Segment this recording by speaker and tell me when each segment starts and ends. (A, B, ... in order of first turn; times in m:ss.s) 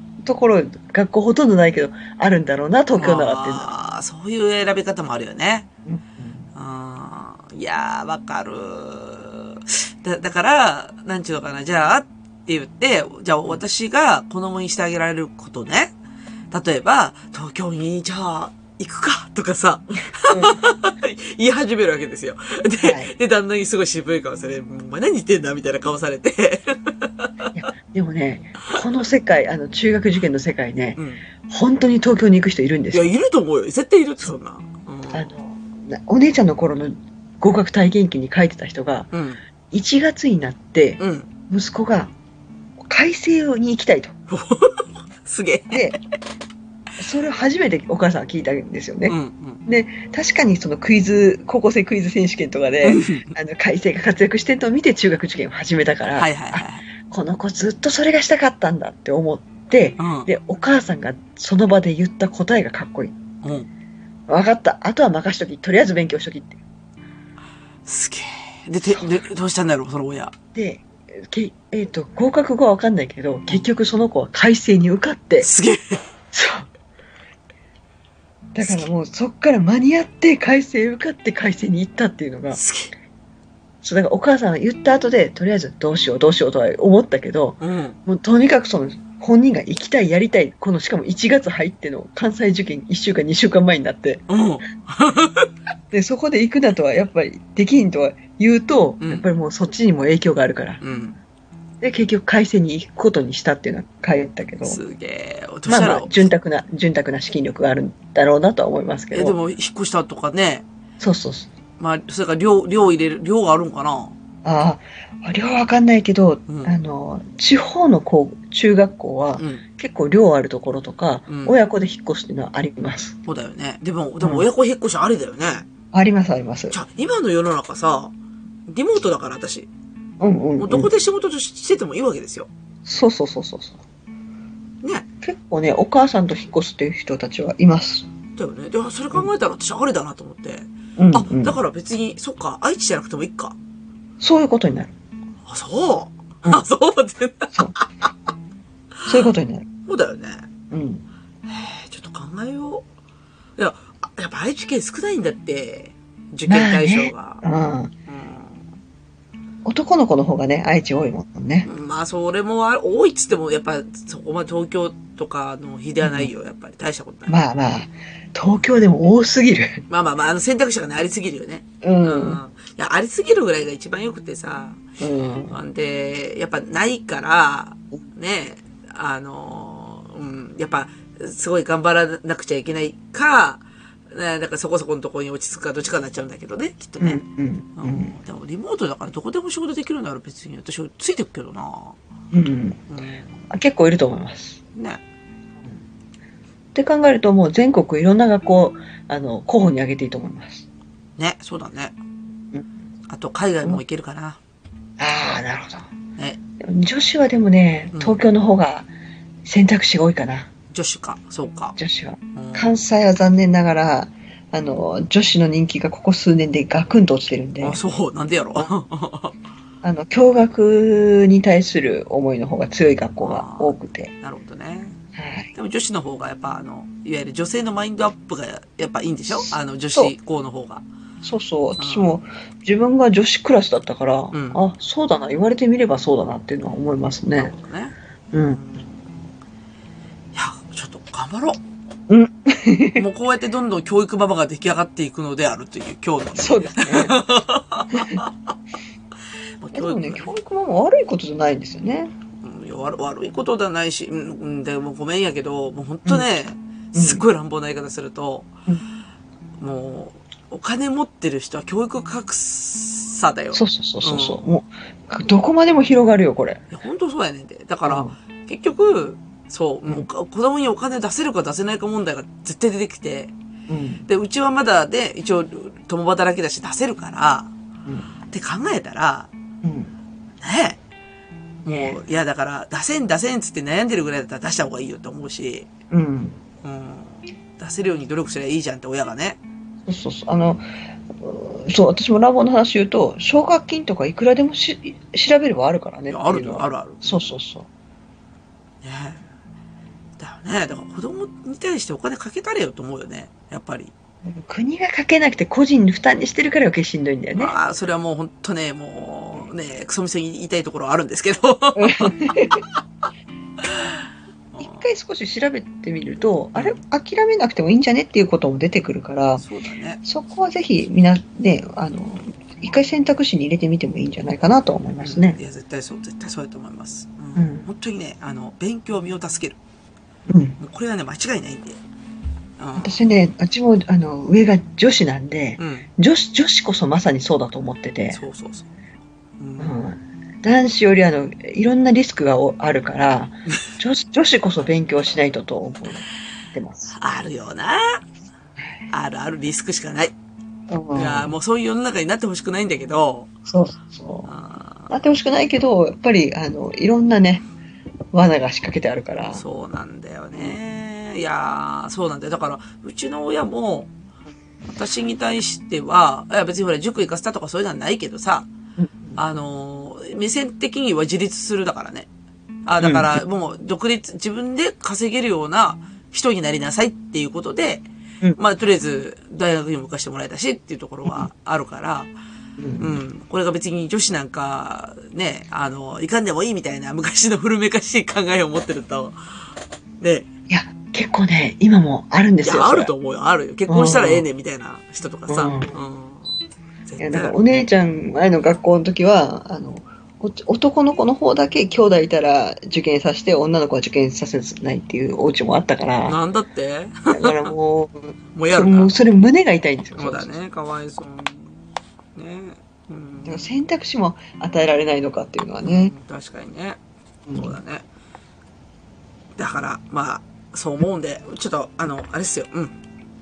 0:00.2-0:03.7 A
0:03.0-0:05.7 B
0:05.8-0:06.4 A
0:06.5-0:15.9 B
0:16.5-0:27.6 B
0:20.3-0:20.6 A
0:22.8-0:23.1 A
0:27.5-0:33.1 A
0:31.0-0:31.2 B
0:32.9-0:35.3 B
0:35.1-0:39.1 A
0:39.1-0:39.4 B
0:39.7-0:42.1 A
0:41.0-0:41.3 B
0:42.8-0:44.1 A
0:44.3-0:46.0 B
0:45.7-0:46.0 A
0:47.0-1:03.1 A
0:49.0-0:49.6 B
0:52.8-0:53.3 B
0:56.1-0:56.8 B
1:00.0-1:00.3 B
1:03.4-1:03.7 B
1:04.3-1:06.6 A
1:07.8-1:10.3 B
1:10.5-1:15.5 A
1:15.4-1:16.0 B
1:16.3-1:16.7 A
1:18.5-1:22.6 A
1:18.6-1:18.9 B
1:22.5-1:22.9 B
1:23.8-1:34.3 A
1:27.6-1:28.0 B
1:34.3-1:35.5 B
1:35.9-1:40.8 A
1:40.8-1:41.2 B
1:41.8-1:44.8 A
1:44.6-1:46.3 B
1:45.7-1:49.4 A
1:49.1-1:50.6 B
1:51.0-1:51.5 A
1:51.8-1:54.2 B
1:54.4-2:03.2 A
1:56.5-1:56.7 B
1:59.4-1:59.6 B
2:01.3-2:01.5 B
2:03.2-2:05.7 B
2:04.2-2:04.4 A
2:05.9-2:06.8 A
2:06.7-2:08.1 B
2:08.7-2:09.7 B
2:10.2-2:10.9 A
2:10.6-2:12.5 B
2:12.8-2:13.8 A
2:15.2-2:18.1 A
2:18.4-2:23.6 B
2:21.0-2:21.6 A
2:24.2-2:24.9 A
2:25.4-2:28.1 B
2:29.0-2:29.3 B
2:29.1-2:29.7 A
2:29.9-2:30.4 B
2:30.7-2:31.0 A
2:31.4-2:32.8 B
2:33.6-2:37.4 B
2:36.5-2:37.9 A
2:38.1-2:38.6 B
2:39.6-2:41.7 A
2:41.6-2:47.3 B
2:46.0-2:46.3 A
2:47.3-2:49.8 A
2:49.9-2:54.8 B
2:51.8-2:52.4 A
2:55.0-2:55.6 A
2:55.5-3:07.2 B
3:07.0-3:08.1 A
3:07.8-3:12.0 B
3:12.3-3:12.8 A
3:12.9-3:13.4 B
3:13.5-3:14.6 A
3:14.7-3:15.0 B
3:16.7-3:20.6 A
3:21.2-3:22.0 B
3:23.1-3:24.4 B
3:25.0-3:25.9 A
3:26.6-3:28.9 A
3:29.4-3:30.5 A
3:30.7-3:31.8 B
3:31.8-3:37.8 A
3:32.3-3:32.8 B
3:37.6-3:39.4 B
3:39.8-3:44.1 A
3:43.2-3:45.0 B
3:45.2-3:45.5 A
3:45.5-3:50.8 B
3:49.3-3:50.1 A
3:51.2-3:57.5 A
3:51.8-3:52.1 B
3:54.3-3:54.6 B
3:57.3-3:58.0 B
3:58.3-3:58.6 A
3:58.5-3:59.1 B
4:00.3-4:01.6 B
4:02.1-4:03.0 A
4:03.0-4:08.5 B
4:06.4-4:07.2 A
4:07.9-4:08.2 A
4:09.6-4:10.3 B
4:09.7-4:12.1 A
4:12.4-4:18.5 B
4:16.9-4:17.2 A
4:19.6-4:24.4 B
4:23.5-4:26.6 A
4:26.7-4:33.3 B
4:27.8-4:28.1 A
4:33.7-4:34.0 A
4:34.0-4:37.5 B
4:38.3-4:39.3 B
4:39.6-4:39.9 A
4:40.4-4:40.8 B
4:41.6-4:45.7 B
4:41.7-4:42.0 A
4:45.9-4:46.4 A
4:46.6-4:49.4 B
4:49.8-4:57.7 A
4:56.1-4:57.2 B
4:58.8-4:59.2 B
5:00.2-5:03.9 B
5:04.2-5:07.6 A
5:07.4-5:12.2 B
5:11.8-5:12.6 A
5:13.6-5:14.0 B
5:14.5-5:14.8 B
5:14.6-5:19.4 A
5:16.5-5:16.8 B
5:19.4-5:20.0 B
5:20.0-5:25.4 A
5:25.0-5:29.6 B
5:27.4-5:27.7 A
5:30.3-5:30.6 A
5:30.6-5:31.8 B
5:32.6-5:33.0 B
5:32.8-5:38.2 A
5:35.6-5:35.9 B
5:38.1-5:38.7 B
5:39.4-5:39.8 B
5:39.6-5:46.9 A
5:46.9-5:48.0 B
5:48.6-5:48.8 A
5:48.9-5:50.1 B
5:50.7-5:51.3 A
5:50.9-5:53.3 B
5:53.4-5:54.3 A
5:54.2-5:54.9 B
5:54.9-5:57.4 A
5:58.1-5:59.4 A
5:59.3-6:03.9 B
6:04.7-6:08.5 B
6:08.8-6:09.2 A
6:09.2-6:12.1 B
6:12.6-6:17.8 B
6:12.8-6:13.2 A
6:18.4-6:22.1 B
6:22.6-6:23.0 A
6:22.8-6:29.2 B
6:30.0-6:30.3 B
6:30.5-6:32.9 A
6:32.4-6:36.3 B
6:33.7-6:34.2 A
6:35.3-6:35.7 A
6:36.8-6:37.3 B
6:37.0-6:46.2 A
6:46.0-6:47.5 B
6:47.1-6:50.4 A
6:48.3-6:49.0 B
6:50.0-6:53.5 B
6:53.2-6:55.9 A
6:55.6-6:56.8 B
6:57.3-6:57.5 A
6:57.4-6:57.8 B
6:59.4-7:02.8 B